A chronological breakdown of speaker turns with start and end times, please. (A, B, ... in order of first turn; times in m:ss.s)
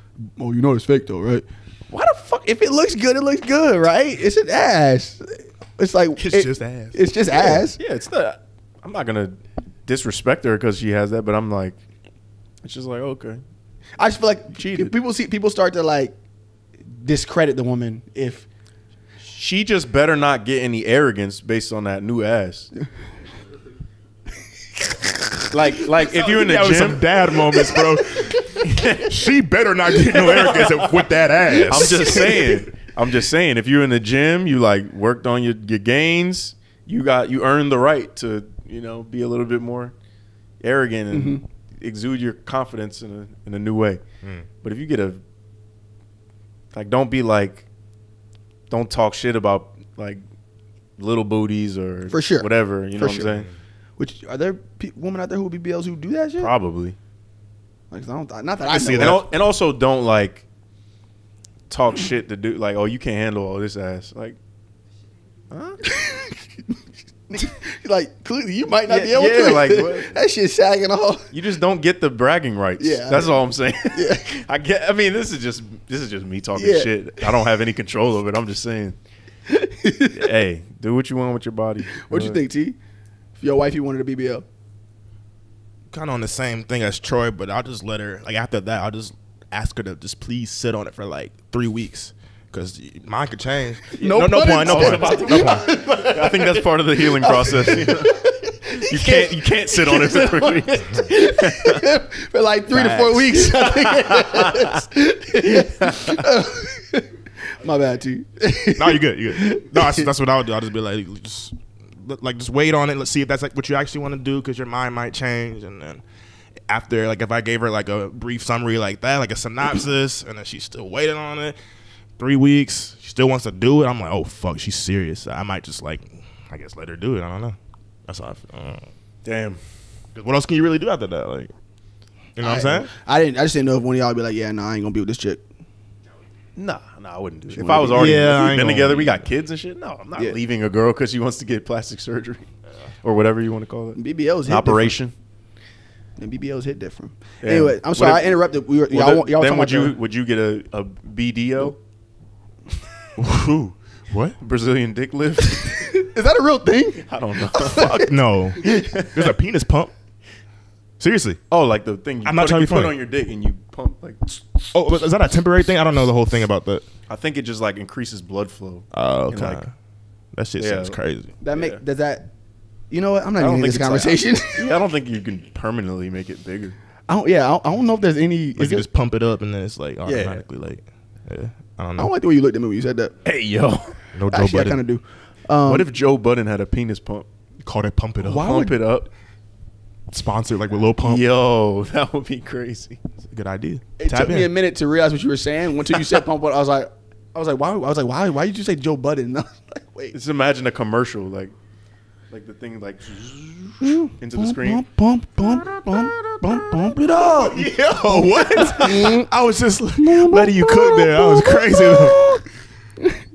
0:00.2-0:07.8 A
0:06.2-0:07.0 B
0:07.5-0:11.8 C
0:12.6-0:13.4 C
0:14.0-0:16.2 A
0:14.5-0:14.9 C
0:16.9-0:18.5 A
0:19.2-0:22.7 C
0:25.5-0:27.6 C
0:26.0-0:32.6 B
0:28.6-0:29.1 C
0:30.1-0:30.8 C
0:31.7-0:39.9 C
0:32.2-0:32.4 A
0:40.6-0:44.0 C
0:41.1-0:41.4 A
0:44.2-0:44.5 B
0:44.6-0:45.2 C
0:46.7-0:47.7 C
0:48.7-0:50.2 C
0:51.0-0:53.5 C
0:52.1-0:53.3 A
0:54.0-0:56.5 A
0:56.4-0:57.0 C
0:57.9-0:59.2 A
0:58.7-0:59.2 B
0:59.0-1:00.4 C
1:01.7-1:04.4 C
1:05.5-1:05.8 C
1:05.8-1:06.5 A
1:07.3-1:11.3 A
1:08.9-1:10.1 C
1:11.3-1:19.0 C
1:12.8-1:14.2 A
1:16.6-1:17.3 A
1:19.5-1:20.3 A
1:20.1-1:22.4 C
1:22.0-1:22.8 A
1:23.4-1:24.4 A
1:25.9-1:35.6 B
1:33.9-1:50.1 A
1:34.1-1:38.2 C
1:38.8-1:41.8 C
1:42.7-1:44.8 C
1:45.4-1:46.3 C
1:48.7-1:56.0 B
1:56.7-2:01.6 B
2:02.2-2:07.6 B
2:08.1-2:08.8 B
2:09.2-2:09.6 C
2:10.1-2:11.5 B
2:12.4-2:12.9 B
2:12.4-2:15.4 A
2:16.6-2:22.5 C
2:17.5-2:18.3 A
2:17.9-2:19.2 B
2:23.0-2:25.1 C
2:23.9-2:25.0 A
2:26.2-2:30.0 A
2:27.4-2:31.8 C
2:33.2-2:34.4 B
2:34.4-2:35.9 C
2:35.6-2:38.1 A
2:37.0-2:38.0 C
2:37.6-2:39.9 B
2:38.6-2:39.0 A
2:38.7-2:39.2 C
2:41.0-2:41.4 B
2:41.5-2:44.5 C
2:42.2-2:43.0 B
2:44.7-2:46.8 B
2:47.1-2:49.6 C
2:48.9-2:49.7 B
2:50.3-2:51.3 B
2:50.6-2:51.0 C
2:51.4-2:52.3 A
2:51.5-2:51.8 C
2:52.9-2:54.7 A
2:53.4-2:56.8 C
2:57.1-2:58.8 A
2:58.6-3:02.1 B
3:00.0-3:00.4 C
3:02.0-3:03.1 A
3:03.2-3:04.0 C
3:04.1-3:04.8 B
3:04.3-3:05.9 A
3:05.6-3:07.3 C
3:07.6-3:08.5 B
3:08.2-3:08.8 A
3:08.3-3:09.1 C
3:10.1-3:11.2 B
3:11.0-3:13.0 C
3:13.3-3:14.5 B
3:14.0-3:20.1 A
3:14.1-3:14.5 C
3:20.1-3:21.5 C
3:22.3-3:24.8 C
3:23.8-3:29.2 A
3:25.9-3:26.3 B
3:27.2-3:32.5 B
3:30.0-3:32.4 A